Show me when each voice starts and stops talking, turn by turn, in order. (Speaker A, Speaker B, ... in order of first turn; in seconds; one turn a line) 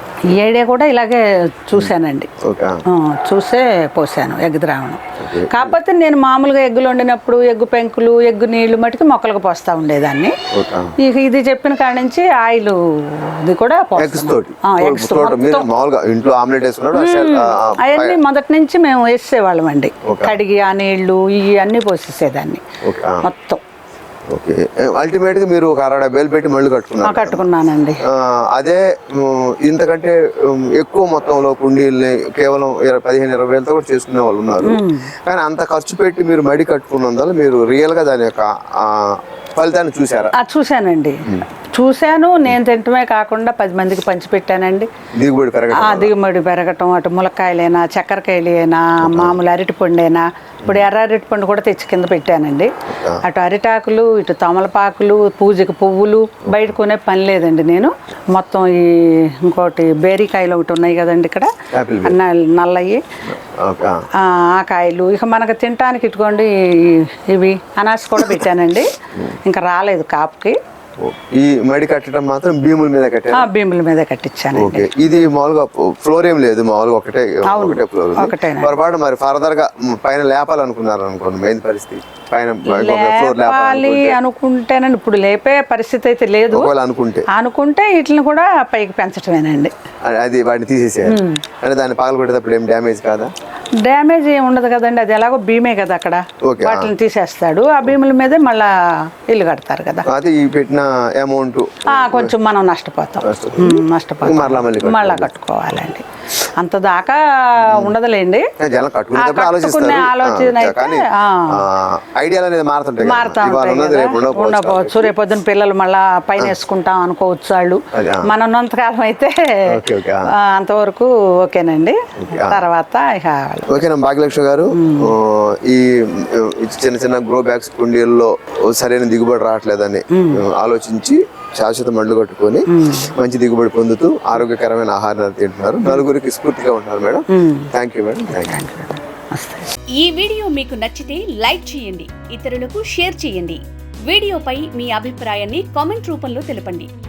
Speaker A: 0.3-2.3
Speaker B: 1.8-2.8
Speaker A: 2.9-10.3
Speaker B: 5.2-5.8
Speaker B: 10.5-10.9
Speaker A: 11.0-15.7
Speaker B: 14.0-18.2
Speaker A: 16.9-22.6
Speaker B: 20.1-20.3
Speaker B: 22.8-23.2
Speaker A: 23.2-23.6
Speaker B: 24.3-27.4
Speaker A: 27.0-28.0
Speaker B: 28.1-40.3
Speaker A: 34.6-35.1
Speaker A: 40.4-44.9
Speaker B: 45.1-46.1
Speaker A: 45.7-52.7
Speaker B: 49.0-49.4
Speaker B: 52.9-53.2
Speaker A: 53.2-61.5
Speaker B: 61.7-62.2
Speaker A: 62.0-63.0
Speaker B: 63.4-64.0
Speaker A: 64.2-68.9
Speaker A: 69.5-70.6
Speaker B: 71.0-73.5
Speaker A: 73.3-74.9
Speaker B: 74.5-84.2
Speaker A: 77.5-78.8
Speaker A: 82.7-86.7
Speaker B: 86.5-87.3
Speaker A: 87.3-89.7
Speaker B: 90.0-93.3
Speaker A: 91.1-91.4
Speaker A: 93.8-98.7
Speaker B: 96.4-96.9
Speaker A: 99.3-100.1
Speaker B: 100.1-102.3
Speaker A: 101.9-106.1
Speaker B: 103.2-105.3
Speaker A: 106.6-108.5
Speaker B: 107.6-108.0
Speaker B: 108.6-115.1
Speaker A: 109.2-111.6
Speaker A: 113.0-119.8
Speaker B: 117.9-118.3
Speaker B: 119.7-120.3
Speaker A: 120.3-123.8
Speaker B: 122.2-122.7
Speaker B: 123.7-138.6
Speaker A: 124.7-125.1
Speaker A: 130.1-130.4
Speaker A: 132.7-133.1
Speaker A: 137.3-137.7
Speaker A: 138.3-139.7
Speaker C: 139.9-146.9